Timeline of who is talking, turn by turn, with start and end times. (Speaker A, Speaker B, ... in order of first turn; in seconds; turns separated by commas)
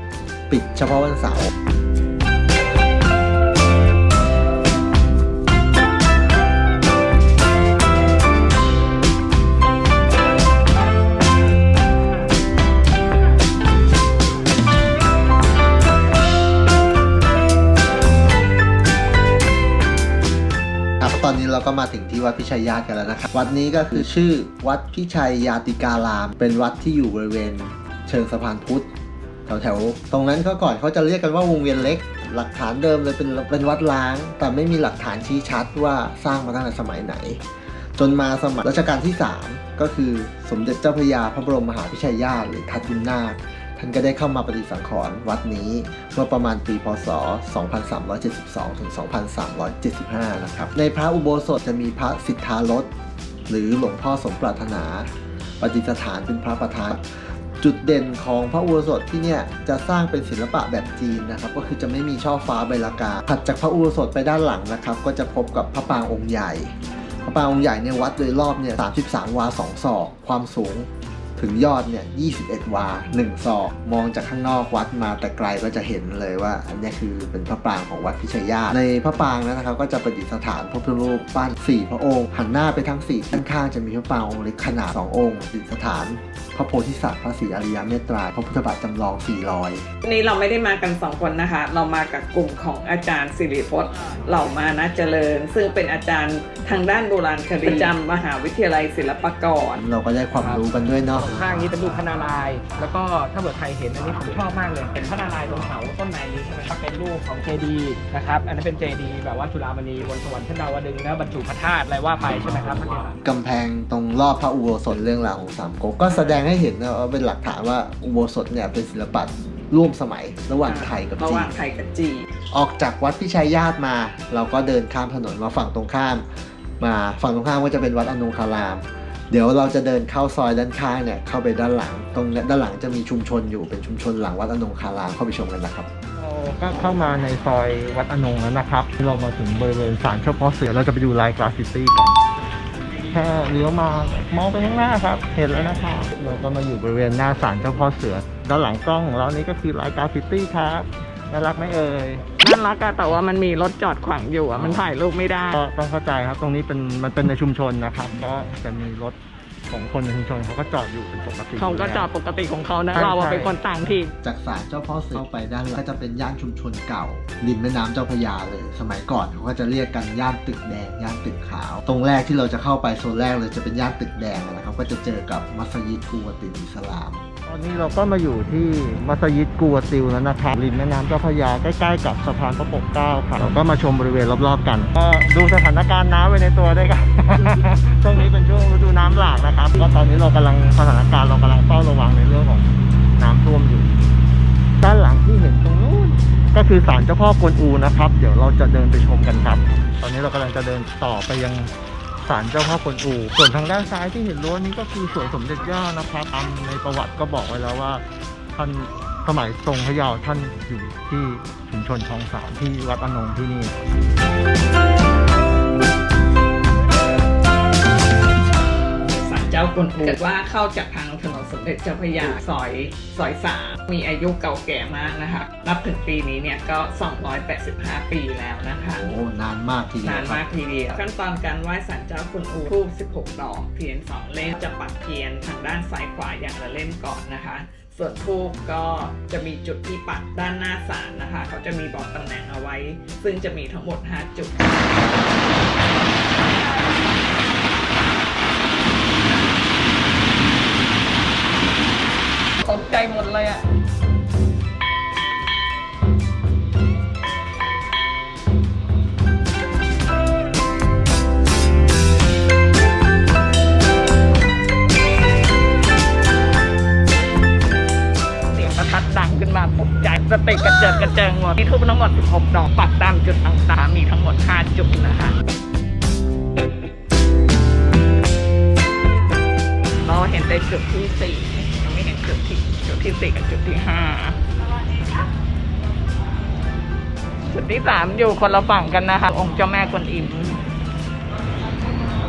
Speaker A: 0.5-1.5, Speaker A: 21.0-28.9, Speaker B: 23.3-24.1, Speaker A: 29.5-31.8, Speaker B: 31.8-32.2, Speaker A: 32.3-37.4, Speaker A: 38.0-52.9, Speaker A: 53.5-55.1, Speaker A: 55.6-57.0, Speaker A: 57.6-66.7, Speaker A: 67.3-70.9, Speaker A: 71.4-72.8, Speaker B: 72.9-73.4, Speaker A: 73.4-89.8, Speaker C: 90.0-99.8, Speaker A: 99.8-101.2, Speaker D: 100.4-100.6, Speaker D: 101.2-113.2, Speaker A: 113.2-121.5, Speaker C: 120.6-122.3, Speaker A: 122.5-126.2, Speaker A: 126.8-128.8, Speaker A: 129.3-135.9, Speaker B: 136.2-142.2, Speaker B: 143.1-152.2, Speaker C: 152.4-155.6, Speaker B: 154.6-154.9, Speaker B: 155.5-159.2, Speaker B: 159.7-162.1, Speaker C: 161.6-164.1, Speaker B: 162.9-163.6, Speaker A: 164.2-165.2, Speaker B: 165.1-166.3, Speaker A: 166.2-177.2, Speaker B: 177.4-194.0, Speaker B: 194.8-201.7, Speaker B: 202.2-213.8, Speaker C: 219.1-229.1, Speaker B: 229.0-230.2, Speaker A: 229.2-230.3, Speaker C: 230.0-244.9, Speaker C: 252.6-253.7, Speaker C: 268.5-275.4, Speaker C: 280.0-285.1, Speaker C: 287.5-290.6